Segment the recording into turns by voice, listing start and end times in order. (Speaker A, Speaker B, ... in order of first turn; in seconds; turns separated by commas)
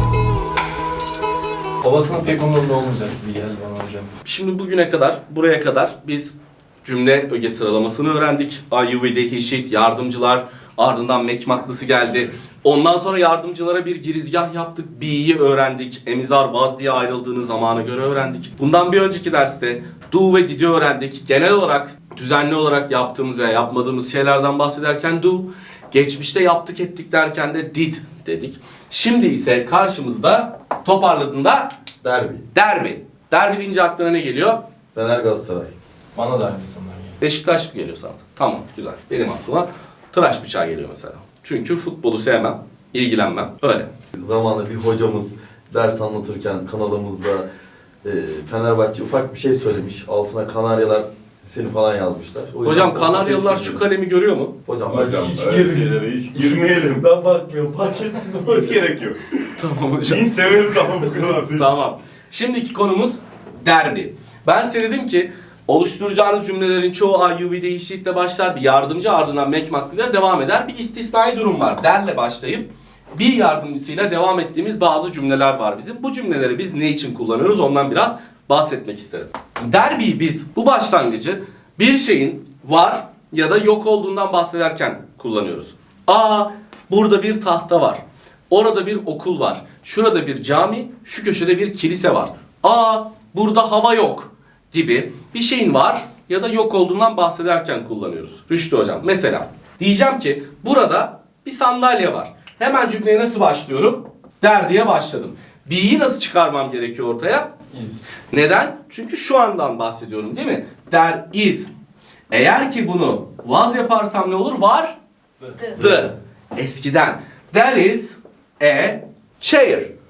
Speaker A: 1.8-4.1, Speaker B: 4.2-31.7, Speaker C: 32.0-32.5, Speaker B: 32.5-34.6, Speaker C: 34.9-35.7, Speaker A: 36.1-37.2, Speaker B: 37.2-43.9, Speaker C: 44.1-47.5, Speaker C: 48.0-53.8, Speaker B: 52.6-54.5, Speaker C: 54.6-58.9, Speaker D: 54.9-57.0, Speaker D: 58.4-59.4, Speaker B: 59.6-60.3, Speaker D: 60.0-61.7, Speaker C: 60.5-61.3, Speaker B: 61.3-107.5, Speaker A: 107.7-108.1, Speaker B: 108.3-111.7, Speaker B: 112.3-115.0, Speaker A: 115.4-115.7, Speaker B: 115.8-119.9